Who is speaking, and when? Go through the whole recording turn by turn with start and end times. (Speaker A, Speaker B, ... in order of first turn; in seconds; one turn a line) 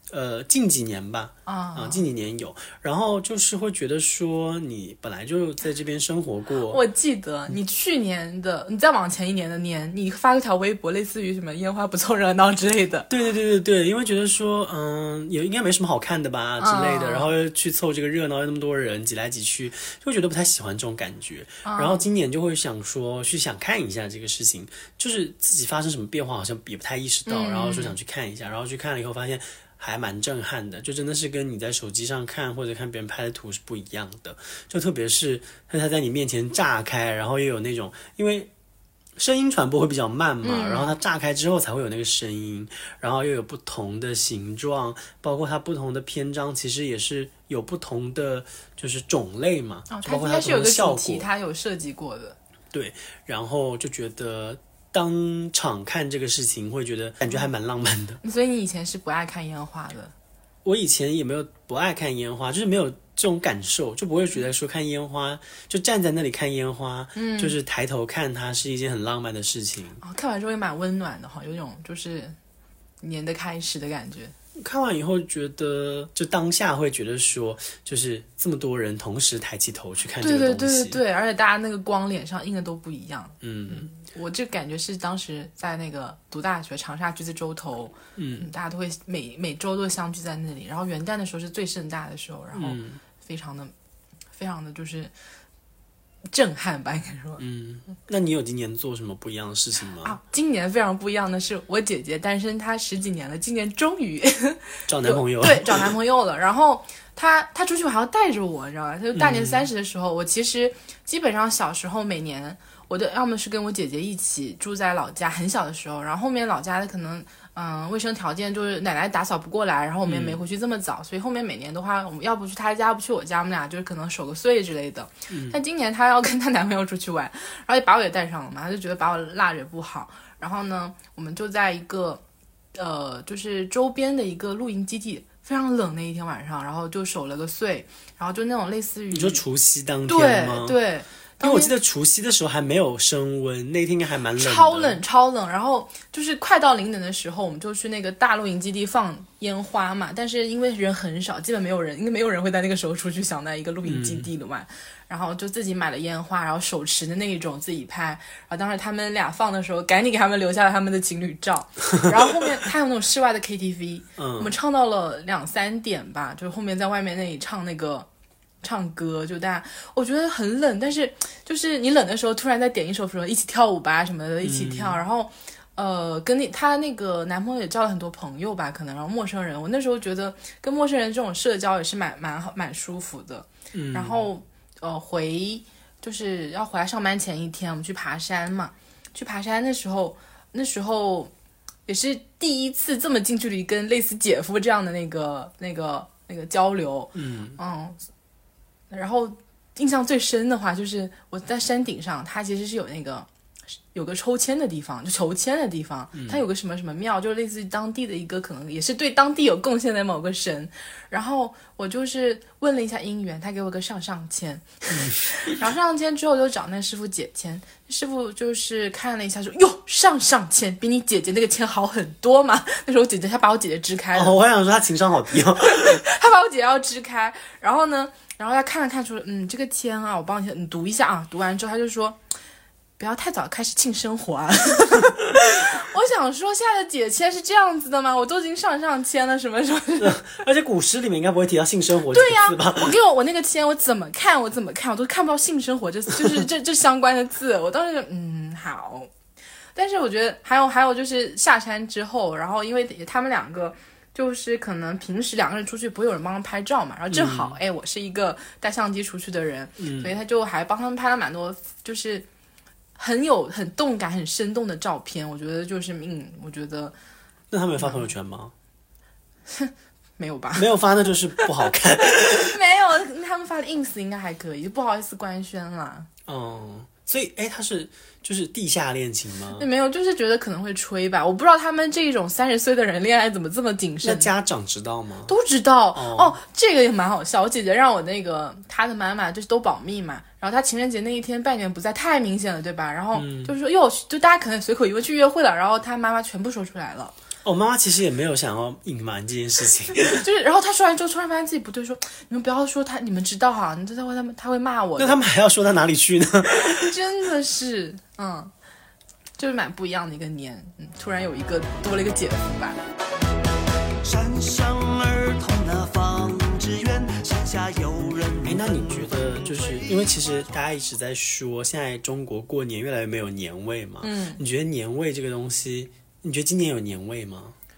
Speaker A: 0.1-6.8
Speaker B: 1.4-2.0
Speaker B: 6.7-13.1
Speaker A: 13.1-38.5
Speaker B: 16.6-17.3
Speaker B: 21.6-22.0
Speaker B: 27.2-27.9
Speaker A: 39.2-51.2
Speaker B: 40.4-40.9
Speaker B: 49.9-52.4
Speaker A: 52.7-58.2
Speaker B: 58.2-60.1
Speaker A: 60.6-70.0
Speaker B: 67.1-67.5
Speaker B: 70.0-72.4
Speaker B: 73.0-74.3
Speaker A: 74.5-81.0
Speaker B: 80.2-93.7
Speaker A: 83.4-83.9
Speaker A: 88.2-88.5
Speaker A: 92.5-93.0
Speaker B: 94.3-95.1
Speaker B: 96.3-97.4
Speaker A: 97.4-100.2
Speaker B: 100.0-132.2
Speaker A: 104.9-105.9
Speaker A: 109.1-109.7
Speaker A: 120.1-120.4
Speaker A: 125.3-125.6
Speaker B: 132.7-139.4
Speaker A: 139.1-140.8
Speaker B: 140.1-141.7
Speaker A: 141.4-145.0
Speaker B: 144.4-168.1
Speaker A: 153.9-154.3
Speaker A: 164.2-164.5
Speaker B: 168.6-191.3
Speaker A: 174.4-175.0
Speaker A: 183.7-184.2
Speaker B: 191.9-198.0
Speaker A: 197.1-197.6
Speaker B: 198.9-203.3
Speaker B: 203.9-224.3
Speaker A: 206.1-206.4
Speaker A: 215.0-215.5
Speaker A: 224.1-226.0
Speaker B: 225.6-232.2
Speaker B: 233.0-240.2
Speaker A: 240.0-242.9
Speaker B: 242.1-249.1
Speaker B: 249.7-262.2
Speaker A: 257.1-257.6
Speaker A: 259.8-260.1
Speaker B: 263.0-266.9
Speaker A: 267.5-268.5
Speaker B: 267.8-268.1
Speaker B: 269.5-270.7
Speaker A: 270.5-272.6
Speaker B: 272.3-276.1
Speaker A: 276.2-279.6
Speaker B: 279.6-284.3
Speaker A: 284.0-285.3
Speaker B: 285.3-297.1
Speaker A: 285.9-286.4
Speaker A: 293.1-293.5
Speaker A: 297.4-300.2
Speaker B: 300.1-305.2
Speaker A: 305.0-306.9
Speaker B: 306.5-308.5
Speaker B: 309.4-312.8
Speaker C: 314.0-320.0
Speaker A: 318.4-327.6
Speaker B: 324.0-324.4